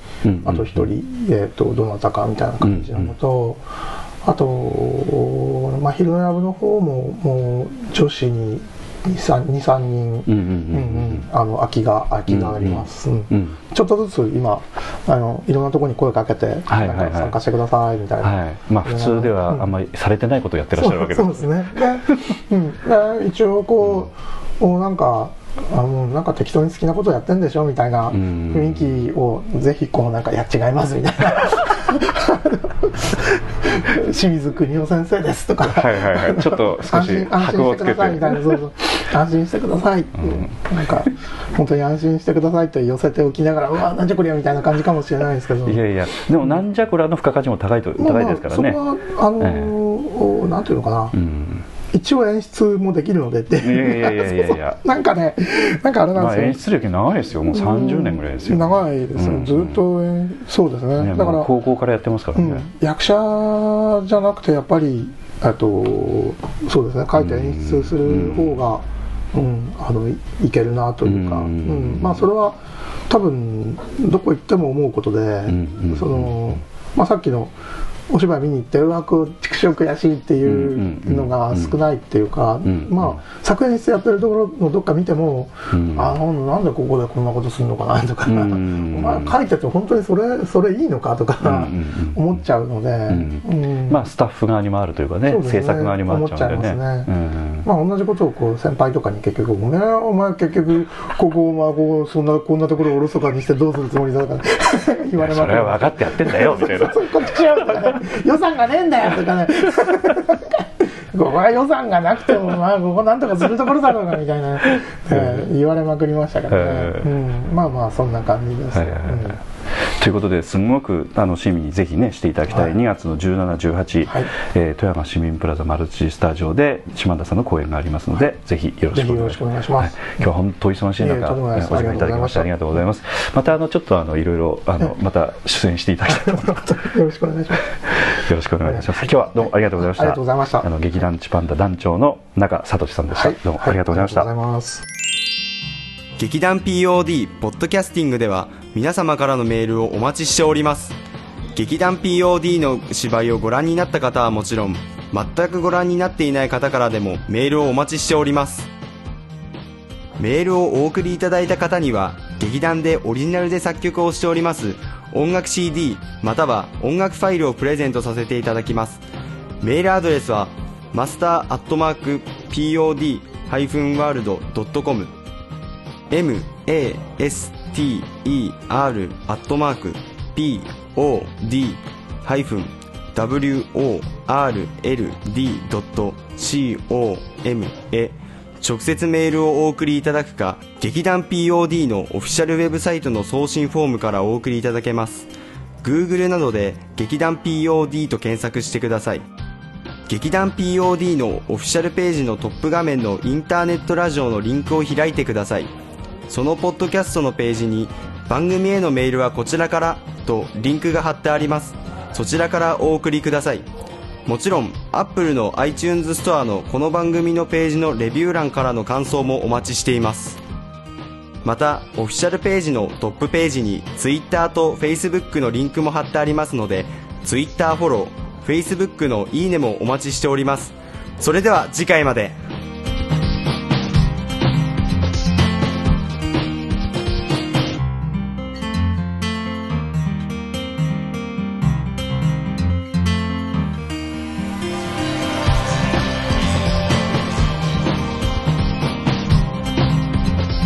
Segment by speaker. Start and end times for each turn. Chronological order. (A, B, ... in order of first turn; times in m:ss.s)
0:00.2-0:00.9 A
0:00.4-0:03.6 B
0:02.6-0:03.1 A
0:04.2-0:19.7 B
0:10.3-0:11.2 A
0:12.3-0:13.6 A
0:16.7-0:17.4 A
0:18.2-0:21.9 A
0:20.7-0:45.8 B
0:28.1-0:29.0 A
0:35.6-0:38.6 A
0:40.2-0:40.5 A
0:45.6-0:48.8 A
0:48.0-0:51.1 B
0:49.4-0:49.7 A
0:51.1-0:51.7 A
0:51.9-0:56.6 B
0:53.6-0:54.8 A
0:56.1-0:59.8 A
0:57.5-1:01.5 B
1:01.0-1:02.7 A
1:02.3-1:12.6 B
1:07.2-1:08.6 A
1:11.0-1:12.3 A
1:13.1-1:17.5 B
1:15.5-1:16.5 A
1:18.1-1:34.0 B
1:20.4-1:21.7 A
1:22.6-1:23.2 A
1:25.7-1:26.1 A
1:28.2-1:29.3 A
1:31.4-1:32.2 A
1:33.1-1:37.6 A
1:35.2-1:37.1 B
1:37.6-1:59.4 B
1:45.2-1:47.1 A
1:55.1-1:55.5 A
1:56.5-1:57.1 A
1:58.7-2:16.6 A
2:08.9-2:10.1 B
2:11.0-2:12.5 B
2:16.0-2:17.8 B
2:18.0-2:24.3 A
2:18.6-2:20.7 B
2:23.1-2:24.8 B
2:26.2-2:31.0 C
2:31.5-2:38.7 C
2:40.2-2:49.0 C
2:49.6-2:55.1 C
2:56.1-3:15.3 C
3:15.8-3:19.2 C
3:20.1-3:25.7 C
3:26.3-3:33.7 C
3:34.2-3:40.4 C
3:41.4-3:52.3 C